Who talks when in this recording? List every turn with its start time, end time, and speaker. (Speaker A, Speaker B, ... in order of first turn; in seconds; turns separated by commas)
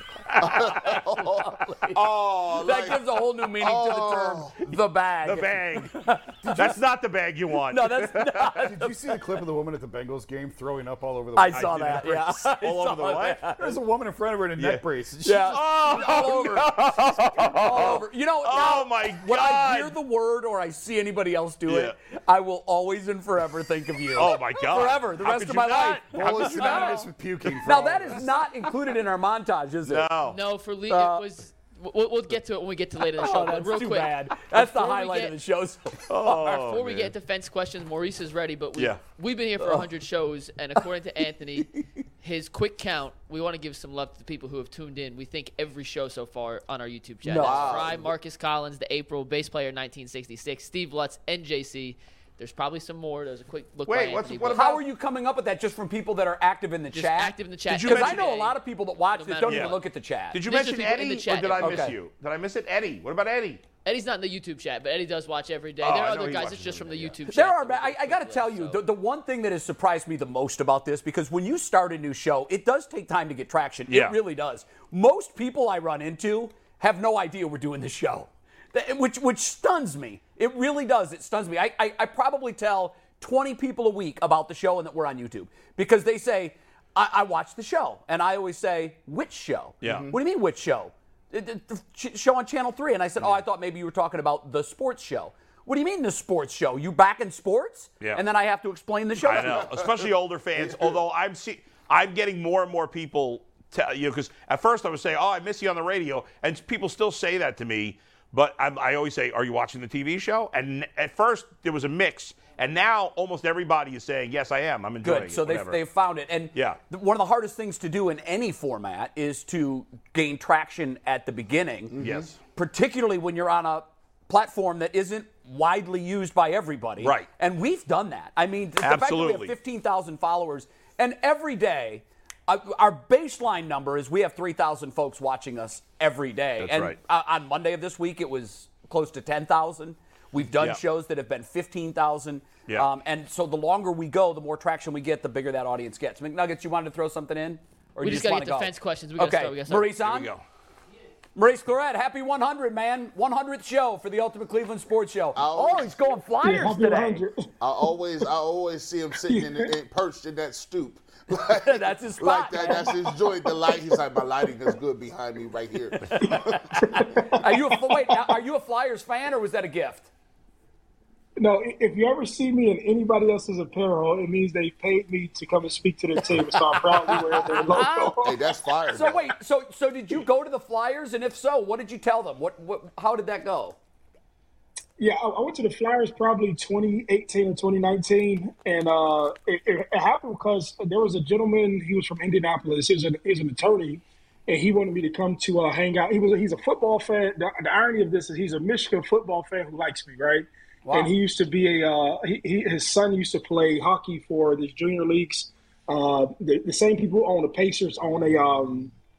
Speaker A: 0.2-1.0, Speaker B: 0.4-4.6, Speaker C: 0.8-2.0, Speaker A: 1.9-2.9, Speaker C: 2.6-6.5, Speaker A: 5.2-5.9, Speaker D: 6.4-6.8, Speaker A: 6.5-8.4, Speaker C: 7.7-8.9, Speaker D: 8.5-12.5, Speaker C: 11.3-13.8, Speaker A: 12.6-13.4, Speaker D: 13.6-16.3, Speaker A: 14.6-14.8, Speaker C: 15.2-27.1, Speaker A: 15.5-20.0, Speaker A: 21.7-21.9, Speaker A: 24.1-27.1, Speaker D: 26.1-28.4, Speaker C: 27.6-30.1, Speaker A: 29.8-30.4, Speaker E: 30.2-35.4, Speaker C: 30.9-31.2, Speaker C: 33.2-36.6, Speaker A: 36.1-37.1, Speaker E: 36.5-54.8, Speaker A: 38.7-39.0, Speaker C: 39.6-39.8, Speaker C: 47.2-47.7, Speaker B: 47.4-48.1, Speaker A: 53.9-54.8, Speaker C: 54.5-60.4, Speaker E: 56.9-59.8, Speaker A: 57.7-58.2, Speaker A: 59.5-59.8, Speaker A: 60.3-63.6, Speaker E: 60.4-61.9, Speaker C: 61.6-62.0, Speaker E: 63.8-68.8, Speaker A: 65.8-67.1, Speaker C: 67.3-99.7, Speaker A: 73.9-74.2, Speaker A: 89.8-90.1, Speaker B: 89.8-90.1, Speaker B: 99.2-101.0, Speaker A: 99.2-115.8, Speaker C: 115.0-121.9, Speaker A: 116.5-116.8, Speaker B: 121.9-122.3, Speaker A: 122.0-122.3, Speaker C: 122.5-150.3, Speaker A: 127.0-127.3, Speaker A: 128.8-129.5, Speaker A: 136.6-136.9, Speaker E: 148.0-150.0, Speaker A: 150.0-150.4, Speaker C: 151.3-157.2, Speaker B: 155.3-156.1, Speaker F: 156.4-157.5, Speaker B: 157.6-166.7, Speaker F: 159.3-159.7, Speaker C: 161.6-162.9, Speaker F: 163.6-163.9, Speaker C: 166.0-170.1, Speaker F: 166.2-168.2, Speaker F: 171.4-178.5, Speaker C: 177.1-178.2, Speaker B: 178.2-179.3, Speaker C: 178.9-183.8, Speaker F: 185.0-208.9, Speaker C: 200.8-201.1